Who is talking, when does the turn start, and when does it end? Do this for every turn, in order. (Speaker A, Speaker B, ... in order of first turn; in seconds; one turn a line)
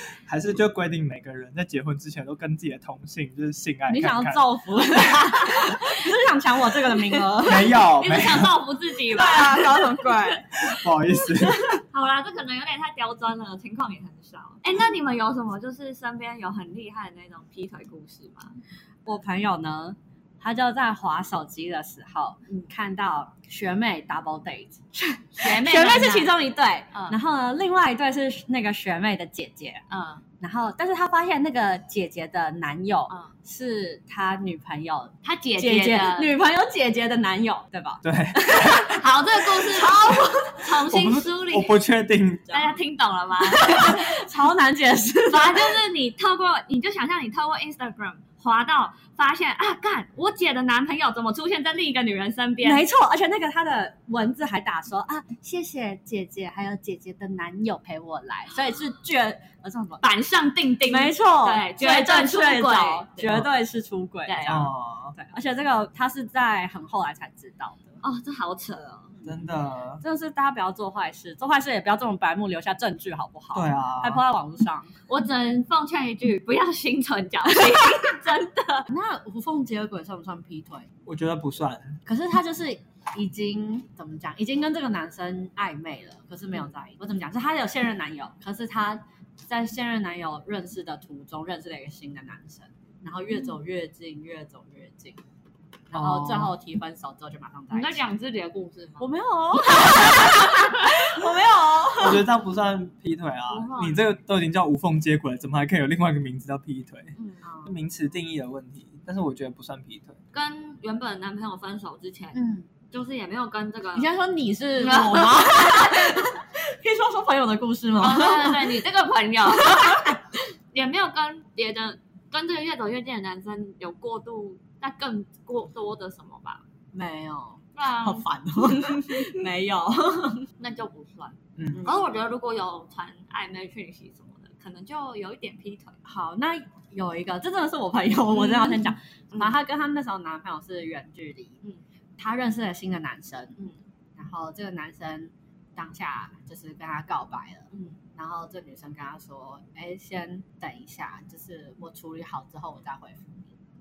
Speaker A: 0.2-5.2
Speaker B: 3.9-7.7
Speaker A: 7.4-8.6
Speaker C: 7.5-9.9
Speaker B: 9.1-10.6
Speaker A: 10.5-11.8
Speaker B: 11.1-11.8
Speaker C: 11.8-18.6
Speaker B: 19.1-29.8
Speaker C: 25.4-27.2
Speaker C: 29.9-30.2
Speaker B: 30.4-40.8
Speaker C: 35.2-36.3
Speaker A: 38.0-38.9
Speaker C: 38.8-41.8
Speaker A: 40.9-42.7
Speaker C: 42.5-44.1
Speaker B: 43.4-45.8
Speaker C: 45.3-52.9
Speaker B: 52.6-60.0
Speaker C: 60.0-63.5
Speaker B: 60.9-68.0
Speaker C: 64.2-64.7
Speaker A: 64.4-65.1
Speaker C: 68.0-69.1
Speaker A: 69.2-70.0
Speaker B: 70.0-74.9
Speaker A: 73.5-74.2
Speaker C: 75.1-78.9
Speaker B: 78.9-80.9
Speaker A: 81.0-82.0
Speaker B: 82.0-95.2
Speaker B: 95.9-98.0
Speaker A: 95.9-96.5
Speaker C: 97.7-99.1
Speaker B: 99.0-102.2
Speaker C: 99.7-100.8
Speaker A: 102.0-110.2
Speaker C: 103.5-104.1
Speaker C: 107.2-107.4
Speaker B: 107.4-107.8
Speaker C: 110.3-114.1
Speaker B: 112.3-112.7
Speaker B: 113.9-118.8
Speaker C: 114.8-116.1
Speaker C: 118.0-120.2
Speaker B: 119.7-120.2
Speaker C: 120.7-126.6
Speaker B: 126.9-130.4
Speaker C: 127.8-129.3
Speaker C: 130.6-136.0
Speaker A: 131.6-131.8
Speaker B: 131.7-132.0
Speaker B: 136.0-141.6
Speaker C: 138.3-139.5
Speaker B: 142.2-143.6
Speaker B: 144.2-153.5
Speaker C: 147.7-148.0